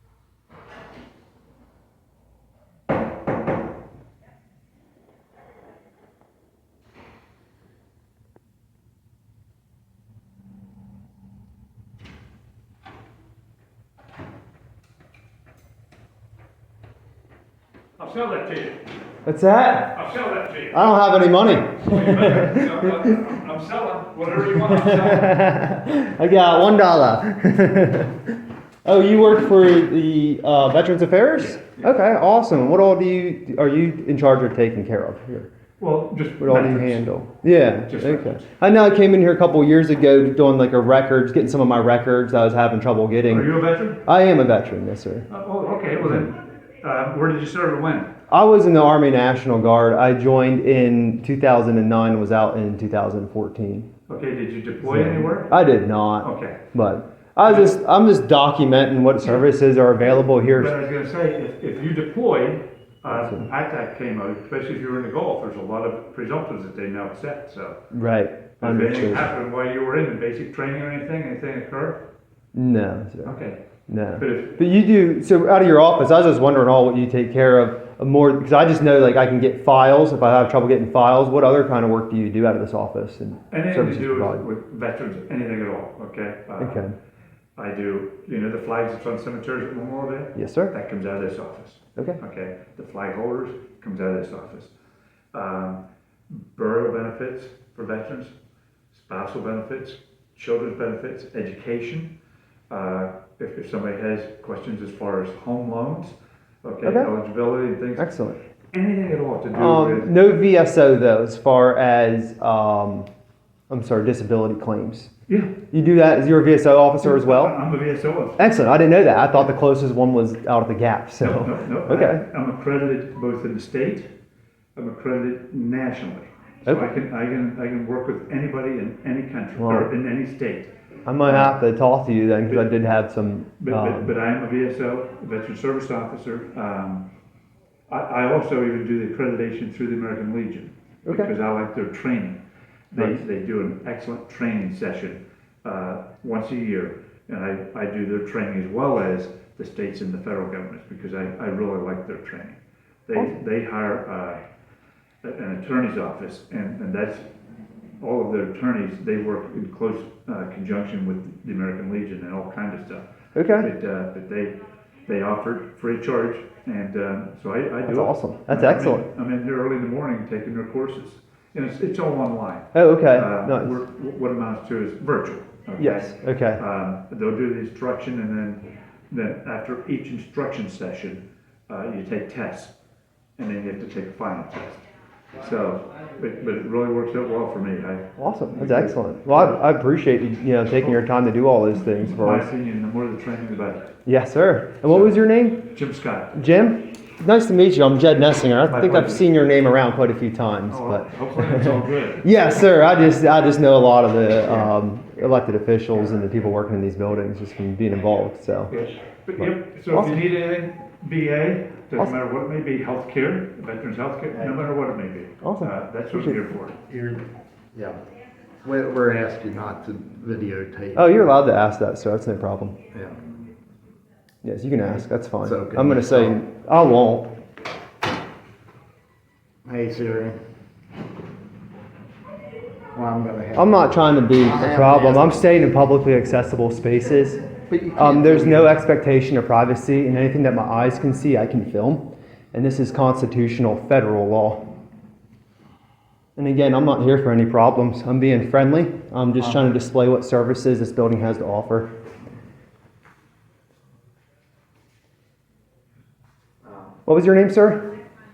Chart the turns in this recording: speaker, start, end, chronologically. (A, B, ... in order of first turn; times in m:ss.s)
0:18.0-0:18.9 A
0:19.2-0:20.0 B
0:19.9-0:20.8 A
0:20.7-0:23.2 B
0:21.8-0:25.4 A
0:24.5-0:28.2 B
0:28.8-0:35.5 B
0:31.4-0:31.9 A
0:35.8-0:37.1 A
0:36.4-0:45.3 B
0:37.8-0:38.4 A
0:43.3-0:44.0 A
0:45.3-0:48.1 A
0:46.0-0:46.3 B
0:48.3-0:53.9 B
0:54.1-0:55.6 A
0:54.8-1:00.8 B
0:56.2-0:56.6 A
0:57.4-0:57.7 A
1:00.5-1:07.8 A
1:03.1-1:03.5 B
1:07.9-1:09.3 B
1:08.6-1:12.0 A
1:12.5-1:13.3 B
1:13.2-1:13.6 A
1:13.9-1:24.4 B
1:14.1-1:14.6 A
1:23.5-1:26.9 A
1:26.6-1:27.0 B
1:27.6-1:34.7 A
1:30.3-1:30.7 B
1:35.3-1:38.3 A
1:38.9-1:42.1 A
1:42.7-1:48.1 A
1:46.8-1:47.1 B
1:48.0-1:48.4 B
1:48.7-1:50.1 A
1:49.5-1:53.1 B
1:53.7-1:55.1 B
1:55.3-1:55.5 A
1:55.7-1:57.6 B
1:57.0-1:58.4 A
1:58.4-2:02.2 B
2:01.2-2:04.1 A
2:04.8-2:10.7 A
2:06.6-2:06.9 B
2:09.6-2:09.9 B
2:11.0-2:14.1 B
2:11.2-2:11.6 A
2:13.6-2:17.1 A
2:17.9-2:34.4 A
2:35.2-2:37.2 A
2:38.0-3:02.7 A
2:43.3-2:43.7 B
2:47.9-2:49.1 B
2:52.7-2:53.8 B
2:55.8-2:56.6 B
3:03.4-3:04.8 A
3:05.4-3:09.6 A
3:08.2-3:12.5 B
3:12.0-3:13.9 A
3:14.0-3:15.7 B
3:14.8-3:16.4 A
3:16.3-3:21.7 B
3:18.6-3:19.3 A
3:20.7-3:22.3 A
3:22.2-3:28.7 B
3:28.7-3:36.8 A
3:29.4-3:30.2 B
3:35.4-3:36.4 B
3:36.9-3:38.0 C
3:38.6-3:41.3 C
3:40.9-3:42.8 B
3:44.4-3:47.3 B
3:45.4-3:46.4 C
3:49.6-3:50.4 C
3:52.9-3:53.8 C
3:53.5-3:57.4 B
3:54.4-3:55.4 C
3:57.5-3:58.8 C
3:58.0-4:04.6 B
4:06.4-4:11.9 B
4:17.0-4:17.9 B